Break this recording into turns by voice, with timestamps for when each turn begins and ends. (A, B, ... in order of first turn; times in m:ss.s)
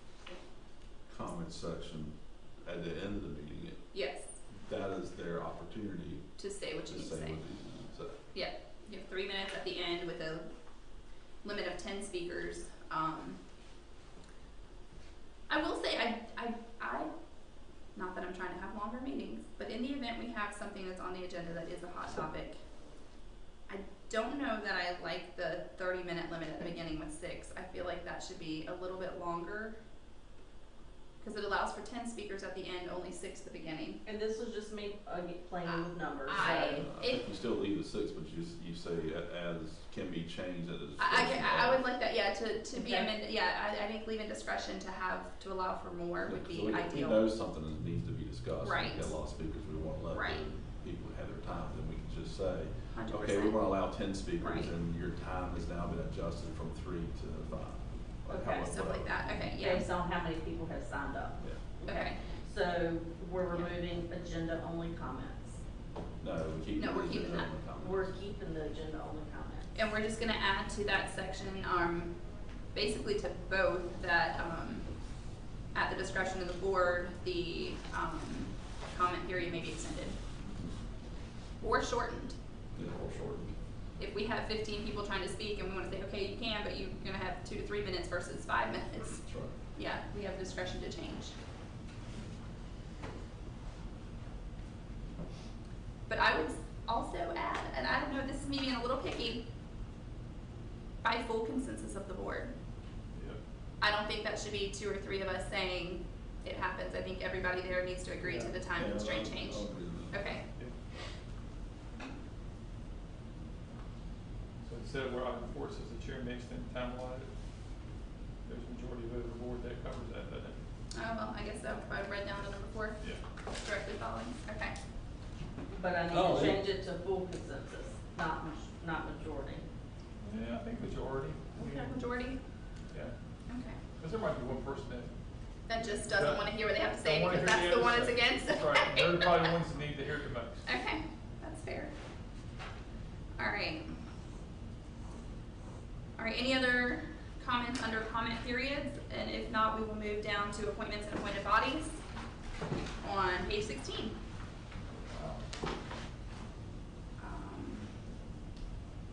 0:01.1-0:03.8 A
0:03.9-0:04.3 B
0:04.5-0:06.3 A
0:06.4-0:07.4 B
0:06.8-0:08.2 A
0:08.3-0:10.5 B
0:11.4-0:13.4 B
0:15.5-0:17.1 B
0:17.9-0:22.6 B
0:23.7-0:29.8 B
0:31.2-0:34.0 B
0:34.0-0:36.9 C
0:35.7-0:37.2 B
0:36.4-0:41.8 A
0:41.0-0:47.3 B
0:42.8-0:43.1 C
0:46.2-0:59.6 A
0:48.6-0:49.2 B
0:50.1-0:50.5 B
0:52.9-0:53.6 B
0:54.4-0:54.7 B
0:58.3-0:58.7 C
0:58.6-0:59.9 B
0:59.6-1:05.6 C
1:01.8-1:02.2 B
1:06.2-1:08.1 A
1:06.8-1:07.5 B
1:07.8-1:09.7 C
1:09.7-1:14.9 B
1:15.7-1:20.2 B
1:21.6-1:22.4 B
1:22.7-1:23.6 A
1:24.0-1:31.3 B
1:29.2-1:29.5 A
1:36.1-1:39.4 B
1:41.0-1:42.5 B
1:43.1-1:43.4 D
1:43.8-1:50.4 B
1:48.2-1:48.5 D
1:48.8-1:50.3 A
1:54.6-1:57.3 D
1:58.4-2:00.6 D
2:00.9-2:04.8 B
2:05.7-2:09.6 C
2:06.1-2:06.6 A
2:10.4-2:11.9 D
2:11.6-2:12.4 B
2:13.5-2:13.8 B
2:14.0-2:15.1 D
2:15.6-2:19.6 B
2:16.2-2:20.6 D
2:20.6-2:21.9 B
2:23.4-2:23.9 B
2:26.2-2:32.0 B
2:33.0-2:34.2 B
2:35.1-2:35.4 D
2:37.2-2:37.9 B